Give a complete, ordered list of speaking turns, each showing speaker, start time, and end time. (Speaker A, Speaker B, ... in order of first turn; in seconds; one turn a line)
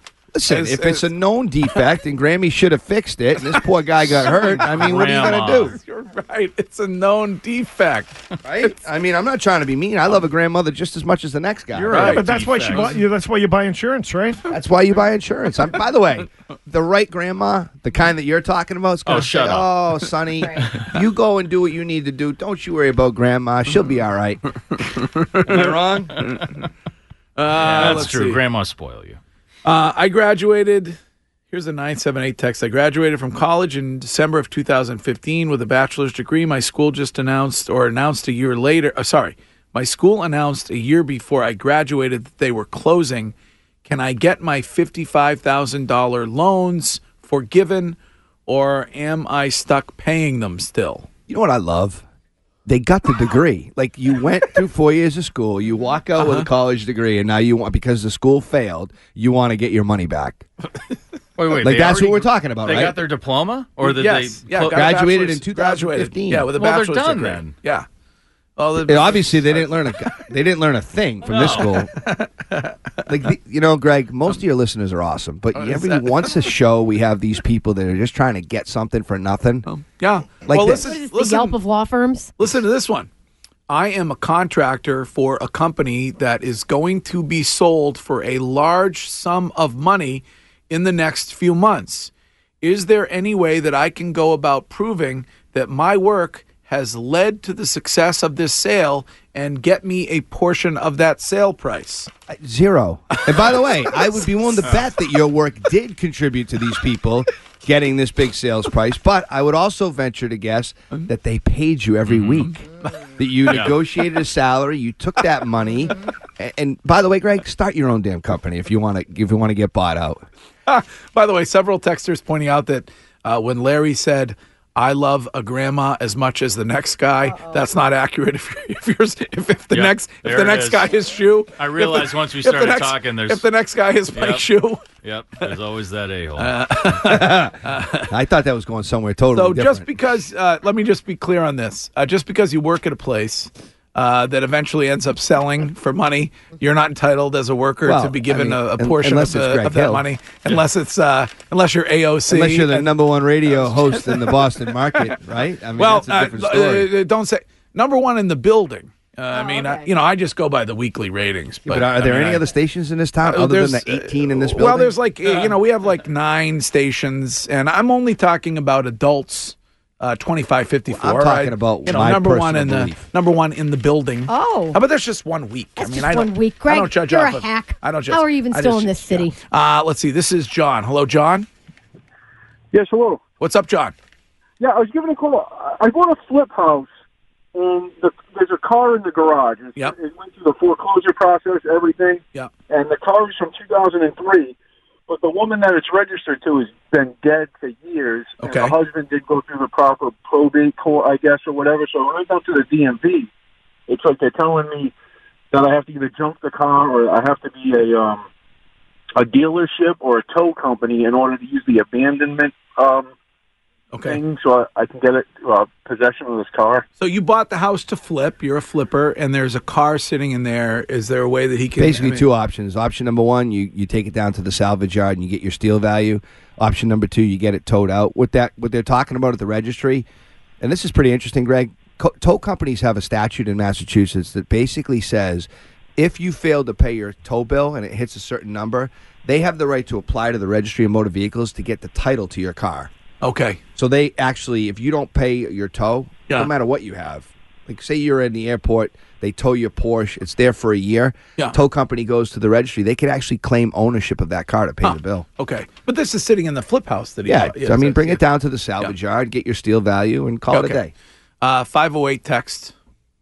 Speaker A: 0.3-5.7
Speaker B: 0.5-1.1
Speaker B: 4.3-8.7
Speaker C: 4.6-5.7
Speaker A: 8.4-12.2
Speaker C: 11.7-13.0
Speaker B: 11.9-13.0
Speaker D: 12.0-14.5
Speaker A: 14.5-24.4
Speaker C: 19.1-19.7
Speaker B: 25.2-25.7
Speaker A: 25.4-26.2
Speaker B: 27.4-28.4
Speaker C: 27.5-29.2
Speaker A: 27.7-28.1
Speaker B: 29.6-31.0
Speaker B: 31.5-43.3
Speaker B: 43.9-51.1
Speaker A: 51.3-52.0
Speaker A: 52.7-60.5
Speaker B: 56.2-56.5
Speaker C: 61.4-65.0
Speaker A: 61.6-63.0
Speaker B: 63.8-67.9
Speaker A: 64.7-66.5
Speaker C: 66.5-67.5
Speaker B: 68.6-69.8
Speaker A: 68.8-71.9
Speaker C: 71.3-71.8
Speaker B: 71.3-72.8
Speaker A: 73.1-79.7
Speaker B: 75.5-76.3
Speaker B: 79.7-81.6
Speaker A: 80.5-80.9
Speaker E: 80.7-82.3
Speaker B: 82.4-83.1
Speaker B: 83.7-92.1
Speaker B: 92.6-102.1
Speaker A: 102.3-112.6
Speaker B: 103.2-104.1
Speaker B: 112.3-112.9
Speaker A: 113.2-120.2
Speaker B: 120.7-134.9
Speaker E: 127.3-127.7
Speaker C: 129.7-130.9
Speaker C: 131.6-133.4
Speaker C: 134.1-134.5
Speaker C: 135.0-136.6
Speaker B: 136.4-138.1
Speaker A: 137.0-137.6
Speaker A: 138.1-139.9
Speaker B: 139.3-152.9
Speaker A: 147.8-150.1
Speaker A: 152.3-156.9
Speaker B: 153.4-155.2
Speaker B: 155.8-162.4
Speaker E: 159.3-159.9
Speaker A: 161.7-165.0
Speaker B: 163.2-181.5
Speaker A: 170.9-173.1
Speaker E: 174.3-174.8
Speaker E: 175.8-179.3
Speaker F: 182.7-183.2
Speaker B: 183.4-183.9
Speaker F: 184.6-186.9
Speaker F: 187.5-194.6
Speaker F: 195.1-203.3
Speaker B: 198.4-198.8
Speaker F: 203.9-204.9
Speaker F: 205.5-208.3
Speaker F: 209.2-213.1
Speaker B: 213.9-214.2
Speaker F: 214.0-216.8
Speaker B: 217.0-222.3
Speaker A: 221.8-230.1
Speaker A: 230.6-242.9
Speaker B: 243.2-243.6
Speaker A: 243.8-255.2
Speaker B: 254.8-258.2
Speaker A: 257.3-260.9
Speaker B: 260.5-260.8
Speaker B: 261.4-262.7